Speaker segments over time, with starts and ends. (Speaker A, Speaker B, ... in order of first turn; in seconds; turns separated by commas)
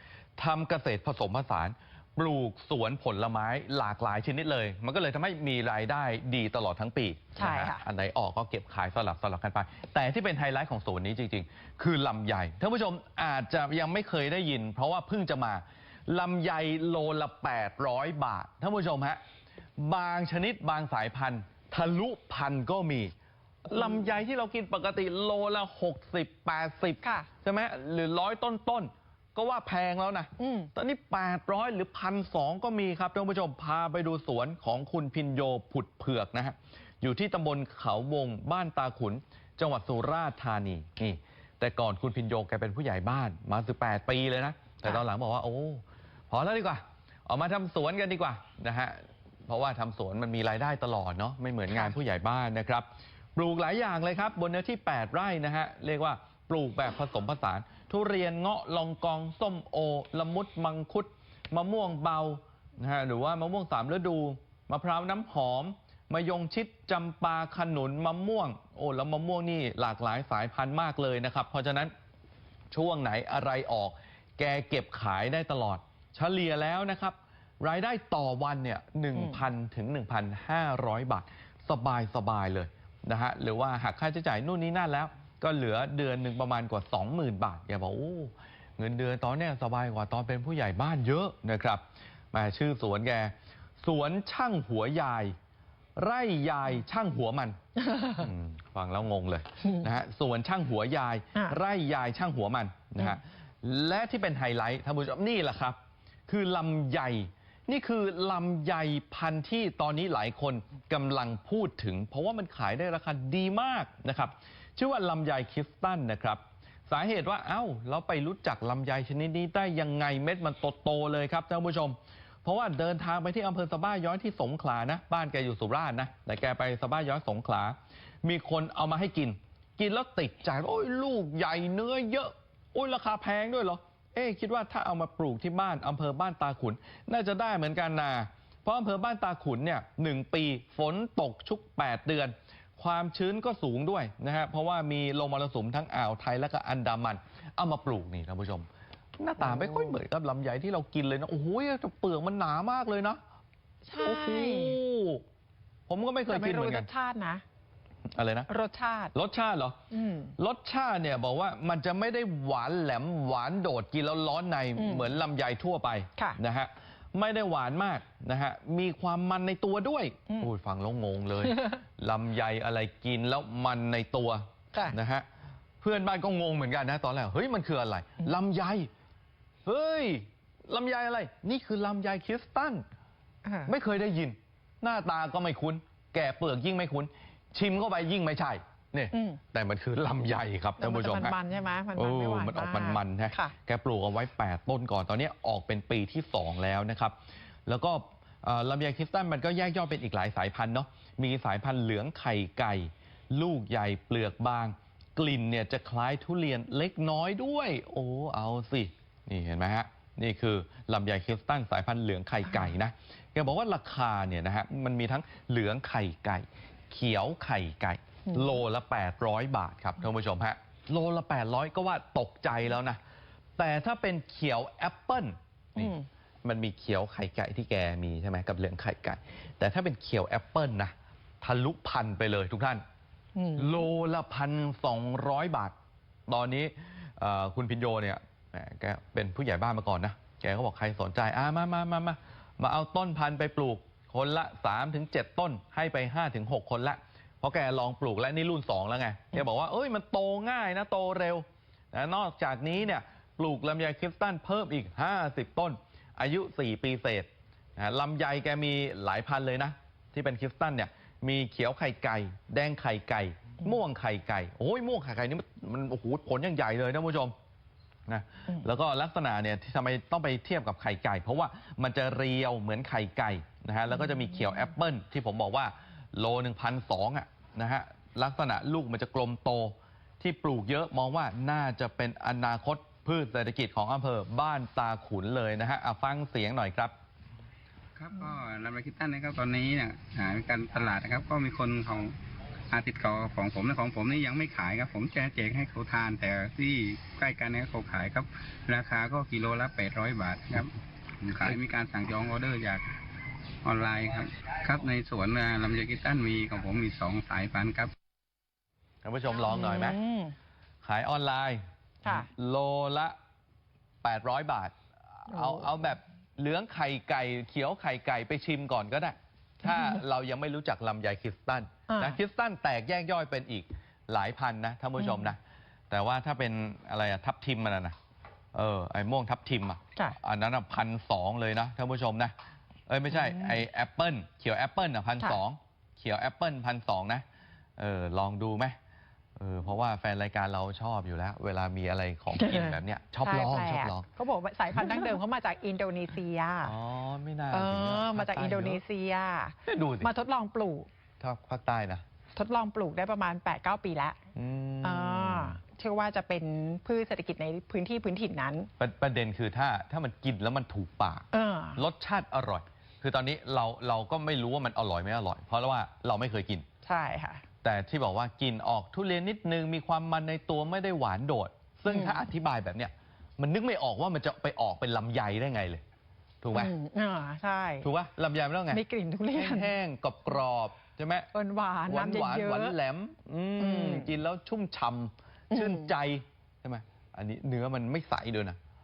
Speaker A: 0.4-19.2, Speaker B: 7.4-7.8, Speaker A: 19.8-23.1, Speaker A: 23.6-71.9, Speaker B: 27.0-27.3, Speaker B: 30.4-30.7, Speaker A: 72.7-91.8, Speaker B: 79.1-79.4, Speaker A: 92.3-95.3, Speaker A: 96.0-153.2, Speaker B: 97.8-98.3, Speaker B: 149.4-149.9, Speaker B: 153.8-154.8, Speaker A: 153.9-155.2, Speaker A: 155.9-156.9, Speaker B: 156.3-157.4, Speaker A: 158.1-158.5, Speaker B: 158.5-159.1, Speaker A: 159.1-159.8, Speaker B: 159.9-160.3, Speaker A: 160.4-175.2, Speaker B: 164.8-165.1, Speaker A: 175.8-178.9, Speaker A: 179.6-182.8, Speaker B: 183.4-183.7, Speaker A: 183.7-191.4, Speaker B: 189.1-189.4, Speaker B: 190.8-193.5, Speaker A: 191.9-197.1, Speaker A: 197.7-223.0, Speaker B: 218.3-218.6, Speaker A: 223.6-232.8, Speaker B: 225.8-226.0, Speaker B: 233.3-233.8, Speaker A: 233.6-235.7, Speaker A: 236.3-267.3, Speaker A: 268.1-286.9, Speaker C: 287.9-292.1, Speaker C: 292.7-302.9, Speaker C: 303.6-307.9, Speaker A: 309.0-310.0, Speaker B: 309.3-310.3, Speaker A: 310.8-313.1, Speaker B: 312.0-312.3, Speaker A: 314.0-314.7, Speaker A: 315.2-325.4, Speaker B: 315.3-315.8, Speaker B: 319.7-320.0, Speaker B: 321.9-322.2, Speaker B: 325.0-325.3, Speaker A: 325.9-327.9, Speaker A: 328.5-332.3, Speaker A: 332.9-337.2, Speaker B: 333.1-333.6, Speaker A: 337.8-338.8, Speaker A: 339.4-344.1, Speaker B: 342.4-346.7, Speaker A: 344.7-345.1, Speaker A: 346.6-348.8, Speaker B: 347.5-350.9, Speaker A: 349.6-350.1, Speaker A: 351.2-352.0, Speaker B: 352.3-354.2, Speaker A: 354.3-355.6, Speaker B: 354.8-358.7, Speaker A: 358.8-366.6, Speaker B: 361.3-361.8, Speaker B: 366.8-367.4, Speaker A: 367.6-375.8, Speaker B: 371.9-372.2, Speaker A: 376.4-376.7, Speaker B: 376.5-377.9, Speaker A: 377.8-381.3, Speaker B: 378.7-379.7, Speaker B: 381.3-382.8, Speaker A: 381.9-388.6, Speaker B: 383.6-384.2, Speaker B: 385.5-385.9